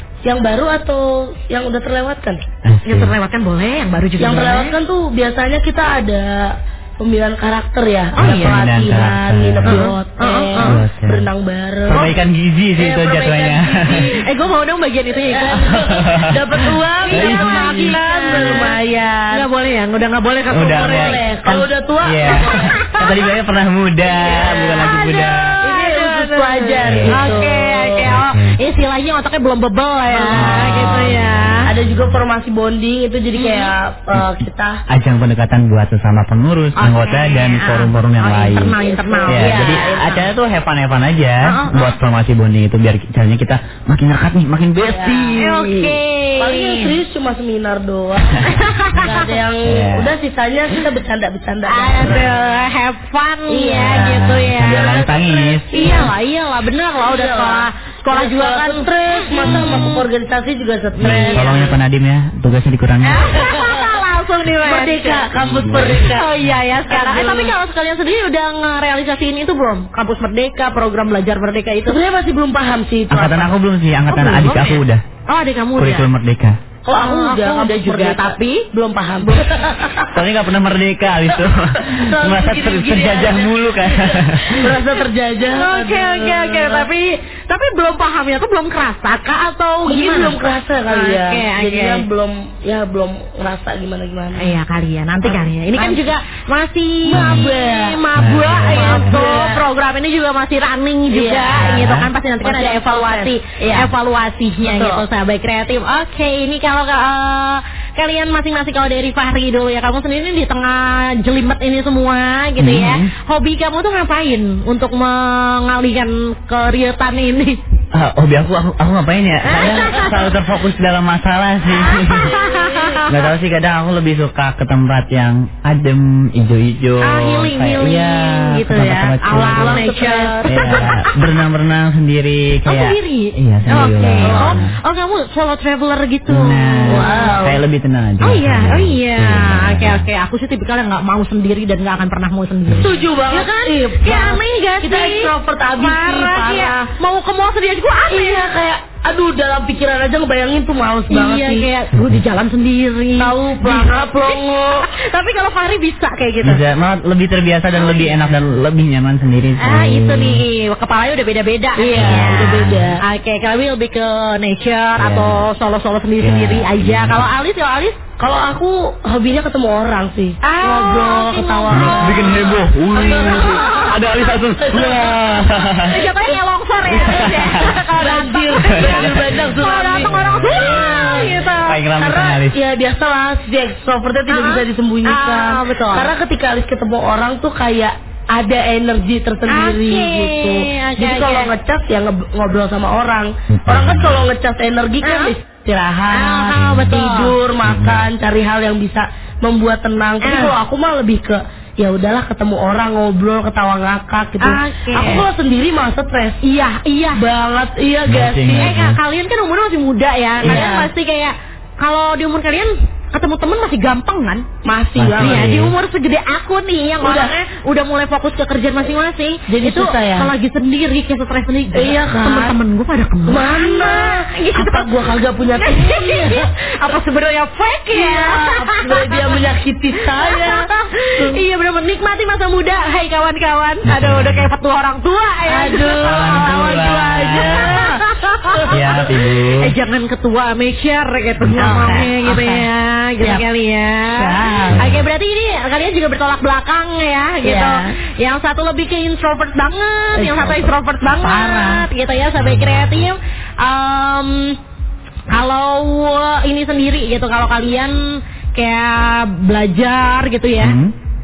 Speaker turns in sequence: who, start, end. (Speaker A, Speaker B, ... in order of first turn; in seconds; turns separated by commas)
Speaker A: 0.2-2.4, Speaker B: 2.6-3.1, Speaker C: 2.9-4.8, Speaker A: 4.2-12.1, Speaker C: 8.2-8.6, Speaker B: 8.2-9.9, Speaker C: 9.6-10.8, Speaker B: 10.6-11.3, Speaker B: 11.9-14.1, Speaker C: 11.9-12.2, Speaker C: 12.8-16.0, Speaker A: 15.2-19.4, Speaker B: 15.6-16.6, Speaker C: 16.6-18.8, Speaker B: 17.1-18.0, Speaker C: 19.3-21.7, Speaker B: 20.5-21.2, Speaker A: 20.8-23.1, Speaker B: 22.0-25.6, Speaker C: 22.2-23.1, Speaker C: 24.2-31.7, Speaker A: 25.6-28.2, Speaker B: 26.8-27.5, Speaker B: 28.0-28.6, Speaker A: 30.1-31.1, Speaker B: 30.3-32.2, Speaker A: 31.7-34.8, Speaker C: 33.4-33.7, Speaker B: 34.9-45.9, Speaker C: 36.8-40.1, Speaker A: 38.8-40.3, Speaker C: 41.4-42.0, Speaker A: 44.9-45.5, Speaker C: 45.4-47.0, Speaker A: 46.4-52.4, Speaker C: 48.4-49.3, Speaker B: 49.6-50.1, Speaker C: 51.7-59.8, Speaker A: 53.5-56.1, Speaker B: 53.7-56.1, Speaker A: 57.0-61.8, Speaker B: 59.4-60.0, Speaker C: 61.0-61.7, Speaker B: 61.0-63.4, Speaker C: 63.0-72.0, Speaker A: 63.3-64.0, Speaker A: 64.6-66.3, Speaker B: 65.3-66.2, Speaker A: 66.9-67.5, Speaker A: 71.9-73.5, Speaker B: 73.1-75.0, Speaker C: 74.1-76.1, Speaker B: 75.8-76.6, Speaker A: 76.8-80.2, Speaker C: 76.9-78.7, Speaker C: 79.2-79.5, Speaker B: 80.1-84.8, Speaker A: 81.8-86.9, Speaker C: 85.4-92.1, Speaker A: 89.9-94.5, Speaker C: 94.3-117.6, Speaker A: 95.2-96.1, Speaker A: 97.0-99.6, Speaker B: 97.1-97.5, Speaker B: 98.2-99.4, Speaker A: 101.1-103.9, Speaker B: 101.5-102.1, Speaker A: 104.6-105.0, Speaker B: 112.6-113.1, Speaker B: 117.9-129.9, Speaker C: 119.4-120.3, Speaker C: 121.7-123.1, Speaker C: 127.0-131.1, Speaker A: 129.3-130.9, Speaker B: 130.4-134.7, Speaker C: 132.7-137.4, Speaker A: 134.2-134.6, Speaker B: 136.3-140.1, Speaker A: 136.9-137.6, Speaker C: 138.2-148.6, Speaker A: 142.8-146.9, Speaker A: 148.0-151.7, Speaker C: 151.1-156.6, Speaker A: 153.2-154.9, Speaker B: 156.4-160.4, Speaker C: 157.8-158.3, Speaker C: 159.6-168.0, Speaker A: 161.8-163.0, Speaker B: 161.9-163.0, Speaker B: 165.0-165.5, Speaker B: 166.2-167.3, Speaker A: 168.2-174.0, Speaker C: 170.4-172.5, Speaker B: 171.7-176.1, Speaker C: 173.0-173.9, Speaker A: 174.6-175.5, Speaker C: 175.8-182.0, Speaker B: 176.9-177.9, Speaker A: 177.9-206.4, Speaker B: 178.6-182.6, Speaker C: 184.3-186.1, Speaker C: 189.5-191.5, Speaker B: 193.5-194.3, Speaker C: 195.0-195.3, Speaker C: 196.1-197.4, Speaker B: 196.5-197.0, Speaker B: 197.6-198.1, Speaker C: 200.2-200.6, Speaker C: 204.4-205.3, Speaker C: 206.4-207.2, Speaker A: 207.2-208.8, Speaker B: 208.1-209.0, Speaker C: 208.6-214.5, Speaker B: 210.4-210.7, Speaker A: 210.4-210.9, Speaker A: 214.7-215.5, Speaker B: 215.0-215.8, Speaker C: 215.2-225.0, Speaker A: 217.0-217.3, Speaker A: 219.5-220.3, Speaker A: 221.7-222.6, Speaker A: 223.3-226.5, Speaker C: 225.5-229.4, Speaker A: 227.9-231.4, Speaker C: 230.2-239.0, Speaker B: 233.8-234.5, Speaker A: 235.5-239.0, Speaker B: 236.0-237.8, Speaker B: 238.7-239.7, Speaker C: 239.6-254.6, Speaker B: 241.4-241.9, Speaker A: 241.6-242.7, Speaker A: 244.2-245.0, Speaker B: 244.7-245.1, Speaker A: 247.4-247.9, Speaker A: 250.2-251.9, Speaker B: 252.3-253.1, Speaker C: 255.3-260.8, Speaker B: 260.6-260.9